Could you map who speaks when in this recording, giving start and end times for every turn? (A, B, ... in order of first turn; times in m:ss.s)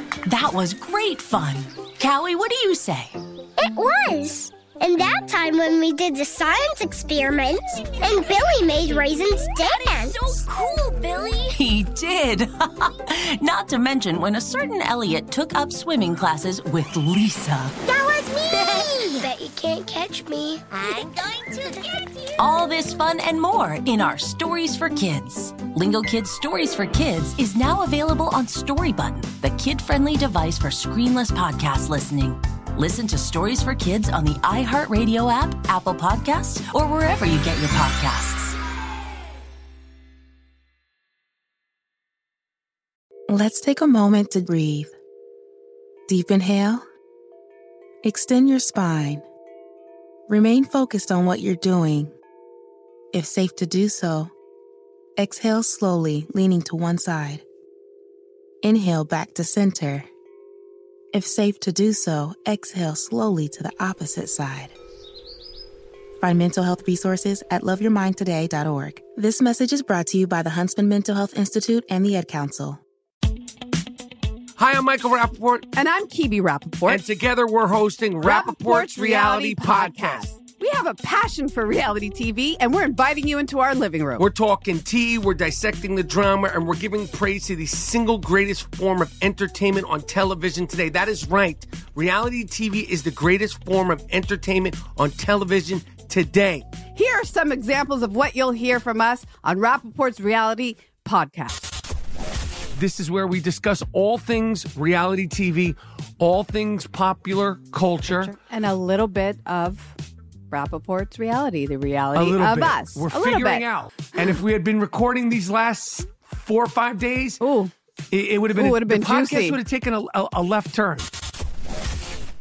0:00.3-0:03.2 A
0:03.6-0:10.4 B
0:10.0-0:17.8 A
0:17.9-0:22.4 B
0:18.7-0:19.2 A
0:22.4-0:38.6 A
0:43.3-0:45.0 C
0:46.1-0:46.9 C
0:48.0-0:49.2 C
0:50.3-0:52.1 C
0:53.1-0:54.3 C
0:55.2-0:57.4 C
0:58.6-1:00.1 C
1:01.1-1:04.7 C
1:06.2-1:12.8 C
1:14.6-1:15.7 D
1:15.7-1:17.1 E
1:16.9-1:20.3 D
1:18.2-1:24.3 E
1:24.2-1:36.7 D
1:37.0-1:41.7 E
1:42.8-1:48.4 D
1:48.4-1:49.9 E
1:50.5-1:53.7 E
1:52.1-1:57.4 D
1:57.4-1:57.7 E
1:58.1-2:01.1 D
1:58.5-1:59.6 E